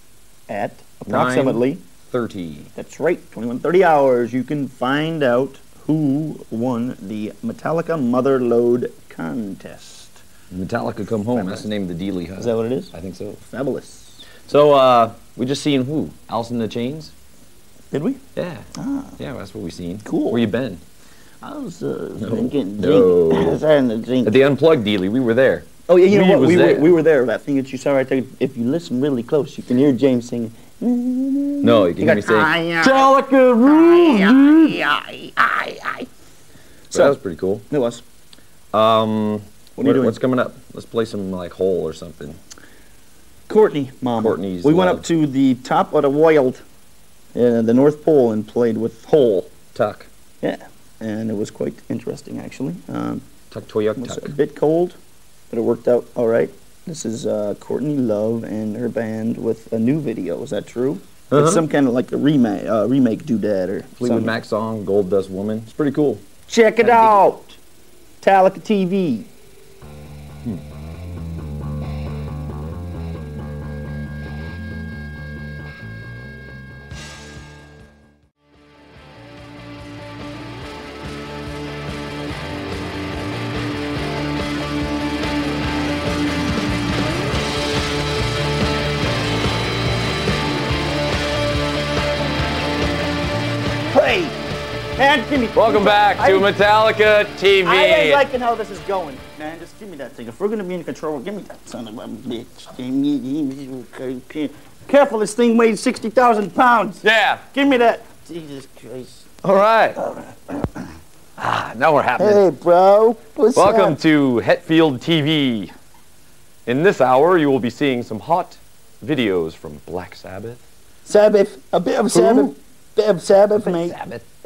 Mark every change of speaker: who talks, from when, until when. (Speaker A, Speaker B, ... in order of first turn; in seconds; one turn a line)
Speaker A: 0.5-1.8
Speaker B: 1.1-2.7
Speaker A: 2.8-10.2
Speaker B: 10.5-13.4
Speaker A: 11.3-11.7
Speaker A: 12.4-14.2
Speaker B: 14.5-17.1
Speaker A: 17.9-18.2
Speaker B: 18.4-18.7
Speaker A: 18.8-19.2
Speaker B: 19.2-20.8
Speaker A: 20.1-20.4
Speaker A: 21.4-24.4
Speaker B: 22.2-23.6
Speaker B: 24.2-26.9
Speaker A: 25.9-33.1
Speaker B: 31.6-34.8
Speaker A: 33.6-36.1
Speaker A: 36.9-37.2
Speaker B: 36.9-37.7
Speaker A: 37.7-38.0
Speaker B: 38.7-42.4
Speaker A: 39.8-40.2
Speaker A: 43.5-46.6
Speaker B: 44.2-45.0
Speaker A: 47.4-49.5
Speaker B: 49.8-50.1
Speaker A: 50.4-53.3
Speaker B: 53.5-54.4
Speaker A: 54.0-55.0
Speaker A: 55.5-64.3
Speaker B: 61.3-61.6
Speaker B: 64.0-66.2
Speaker A: 66.5-67.6
Speaker B: 66.8-67.2
Speaker A: 68.2-69.3
Speaker A: 93.9-94.4
Speaker A: 95.0-96.5
Speaker B: 95.5-98.2
Speaker A: 97.6-109.3
Speaker B: 107.0-107.4
Speaker B: 109.4-110.0
Speaker A: 110.0-110.8
Speaker B: 111.4-112.4
Speaker A: 112.2-114.0
Speaker B: 113.5-115.7
Speaker B: 116.7-120.6
Speaker A: 121.0-124.0
Speaker B: 122.1-122.5
Speaker B: 123.6-124.2